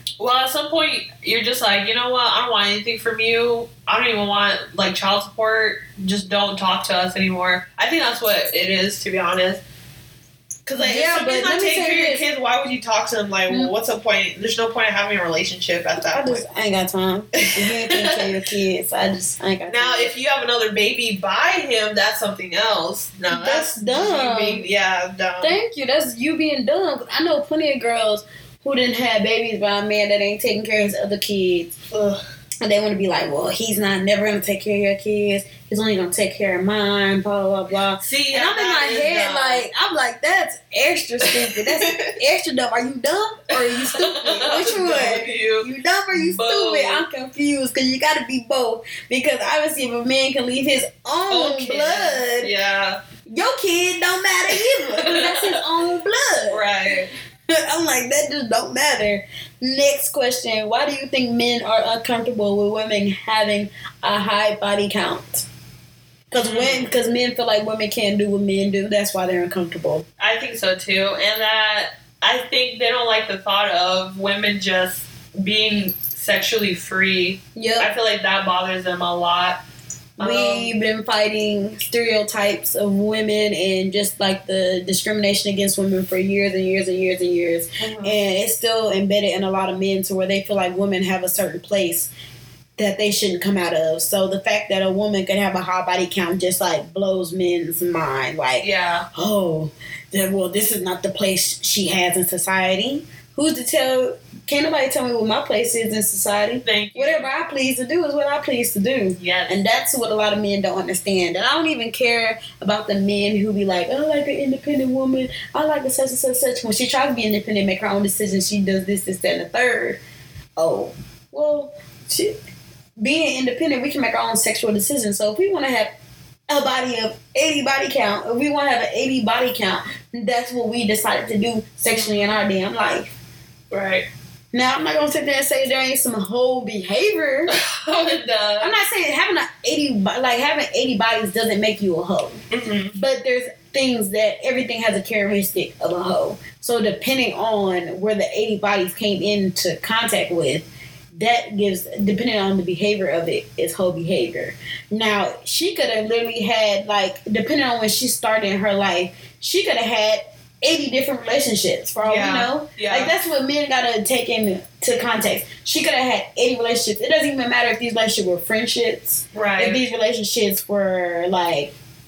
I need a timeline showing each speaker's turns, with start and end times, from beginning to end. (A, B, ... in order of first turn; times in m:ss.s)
0:00.2-0:09.6 A
0:10.6-0:16.4 A
0:10.8-0:12.2 B
0:16.1-0:20.1 B
0:17.4-0:18.3 A
0:19.7-0:25.6 A
0:23.3-0:24.6 B
0:25.4-0:31.8 B
0:31.9-0:32.2 A
0:32.6-0:52.5 B
0:38.0-0:39.6 A
0:41.2-0:42.1 A
0:43.5-0:47.0 A
0:51.3-0:53.0 A
0:53.3-0:56.6 B
0:54.5-0:55.6 A
0:56.5-0:57.1 A
0:57.5-1:05.4 B
1:06.3-1:10.0 B
1:06.4-1:06.9 A
1:10.2-1:19.6 A
1:17.6-1:17.9 B
1:20.2-1:20.7 A
1:20.2-1:32.1 B
1:27.8-1:28.2 A
1:32.8-2:00.0 B
1:38.6-1:39.1 A
1:46.6-1:47.3 A
1:49.2-1:49.6 A
2:00.6-2:02.4 B
2:03.0-2:05.9 B
2:06.5-2:13.1 B
2:11.9-2:12.4 A
2:13.7-2:14.1 A
2:14.5-2:17.6 B
2:17.5-2:18.7 A
2:18.6-2:22.4 B
2:22.5-2:23.0 A
2:22.9-2:51.7 B
2:42.0-2:43.1 A
2:49.3-2:49.8 A